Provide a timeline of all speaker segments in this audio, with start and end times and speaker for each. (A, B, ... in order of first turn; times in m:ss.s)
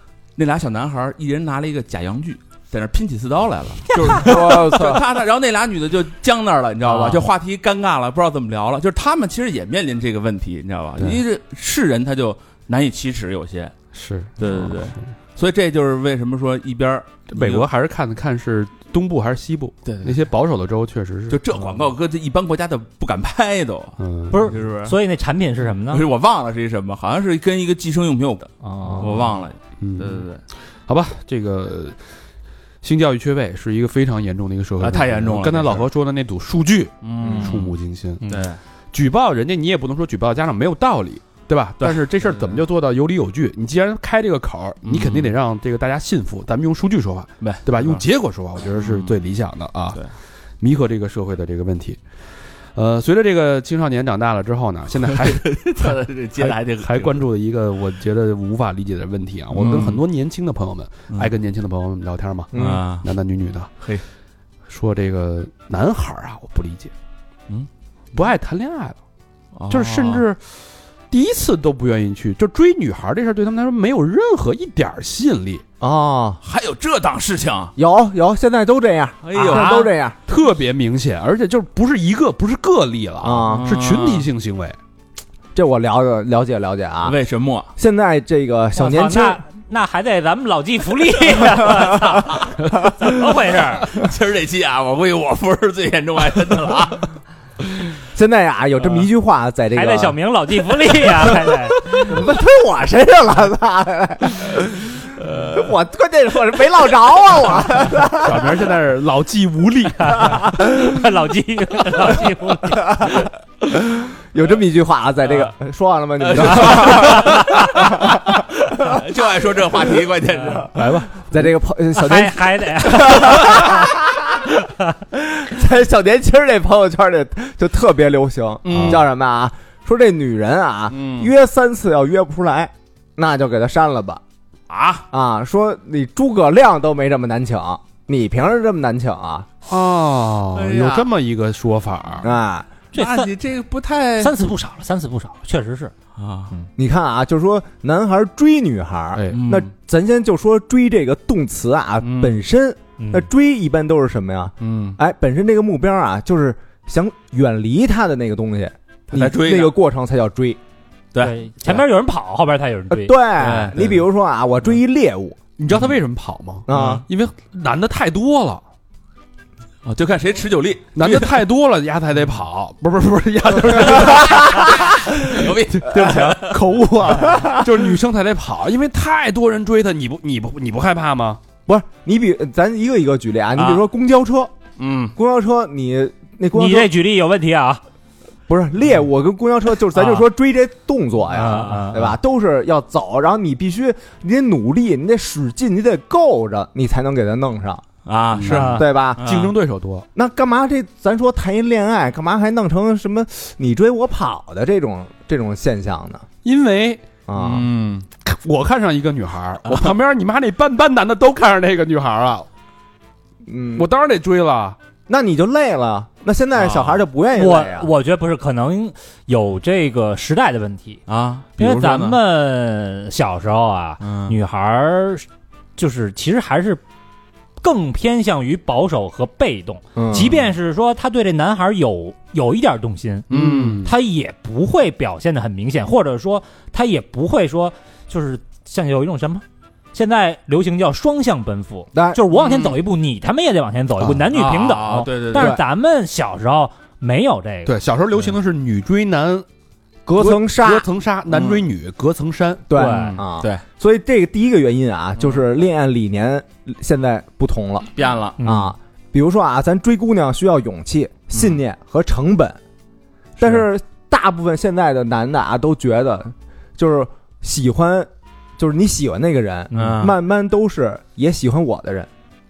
0:00.4-0:13.7 A
0:04.1-0:05.0 B
0:13.9-0:15.1 C
0:14.4-0:17.7 A
0:17.3-0:21.4 C
0:19.8-0:20.2 A
0:21.3-0:25.0 A
0:24.0-0:24.5 C
0:24.3-0:26.0 D
0:25.9-0:30.4 A
0:28.6-0:29.2 D
0:29.8-0:30.3 C
0:30.9-0:32.0 C
0:32.8-0:38.4 C
0:34.8-0:35.9 A
0:37.0-0:37.7 A
0:37.2-0:37.5 B
0:38.2-0:38.6 A
0:38.9-0:50.0 C
0:41.8-0:42.6 A
0:44.8-0:45.3 A
0:47.4-0:48.0 A
0:48.7-0:49.2 A
0:50.6-0:52.0 C
0:52.7-1:03.7 C
0:55.0-0:57.2 A
0:59.5-1:00.0 A
1:02.5-1:02.8 B
1:02.5-1:03.1 A
1:04.7-1:06.9 C
1:08.1-1:09.0 C
1:09.6-1:10.2 A
1:09.7-1:10.6 C
1:11.1-1:15.6 C
1:15.8-1:16.4 B
1:16.4-1:17.7 A
1:17.8-1:20.2 B
1:19.2-1:19.8 A
1:19.4-1:19.9 D
1:20.3-1:24.8 C
1:23.2-1:23.7 B
1:23.5-1:24.3 A
1:25.6-1:27.2 B
1:27.0-1:27.7 A
1:27.8-1:29.4 B
1:28.8-1:33.9 D
1:33.8-1:37.1 A
1:38.1-1:40.2 B
1:39.7-1:41.9 D
1:41.2-1:48.5 B
1:45.2-1:45.7 A
1:48.1-1:50.5 C
1:50.1-1:53.2 D
1:53.0-1:59.0 B
1:56.2-2:00.7 A
2:00.5-2:01.1 D
2:00.5-2:04.4 B
2:02.0-2:03.9 D
2:05.1-2:14.2 B
2:08.6-2:09.1 A
2:08.7-2:09.0 C
2:10.9-2:11.3 A
2:14.7-2:15.1 A
2:15.1-2:19.5 B
2:19.7-2:22.3 C
2:20.5-2:21.1 A
2:22.2-2:22.7 B
2:22.9-2:23.3 D
2:22.9-2:24.3 A
2:24.2-2:25.9 D
2:26.2-2:26.5 A
2:26.8-2:40.6 B
2:29.1-2:29.4 C
2:29.3-2:29.7 A
2:32.0-2:32.4 A
2:33.0-2:33.3 D
2:34.6-2:35.0 A
2:39.1-2:39.8 A
2:41.1-2:41.8 A
2:41.2-2:43.2 D
2:42.9-2:45.4 B
2:43.4-2:44.0 A
2:45.6-2:48.6 C
2:46.7-2:47.0 B
2:46.7-2:47.0 A
2:49.8-2:51.4 A
2:51.0-3:01.4 C
2:53.8-2:56.6 A
2:57.2-2:57.7 B
3:01.7-3:04.5 B
3:03.6-3:03.8 A
3:04.8-3:05.2 A
3:05.2-3:06.9 B
3:06.5-3:07.8 D
3:08.5-3:17.8 B
3:10.0-3:10.2 D
3:11.3-3:12.2 D
3:18.1-3:19.5 A
3:18.4-3:20.1 C
3:18.5-3:18.8 D
3:18.5-3:19.2 B
3:20.2-3:26.2 B
3:26.4-3:27.0 C
3:27.3-3:27.7 B
3:27.4-3:28.1 A
3:28.2-3:32.5 C
3:33.5-3:33.9 B
3:33.8-3:34.8 C
3:35.1-3:37.9 B
3:36.5-3:37.1 A
3:37.3-3:41.0 D
3:41.1-3:42.2 A
3:41.6-3:45.3 D
3:44.0-3:44.4 A
3:45.8-3:46.8 D
3:47.6-3:53.3 D
3:50.0-3:50.4 B
3:53.3-3:53.9 C
3:53.3-3:53.8 B
3:53.8-4:07.8 D
4:01.9-4:02.2 B
4:02.3-4:02.8 A
4:04.3-4:05.6 A
4:05.3-4:05.6 B
4:07.6-4:09.5 C
4:10.1-4:10.9 B
4:10.2-4:12.6 C
4:11.3-4:11.6 A
4:12.7-4:22.6 B
4:12.7-4:13.2 D
4:13.2-4:13.6 A
4:18.0-4:18.4 A
4:18.4-4:18.7 D
4:23.4-4:32.1 B
4:29.7-4:30.2 A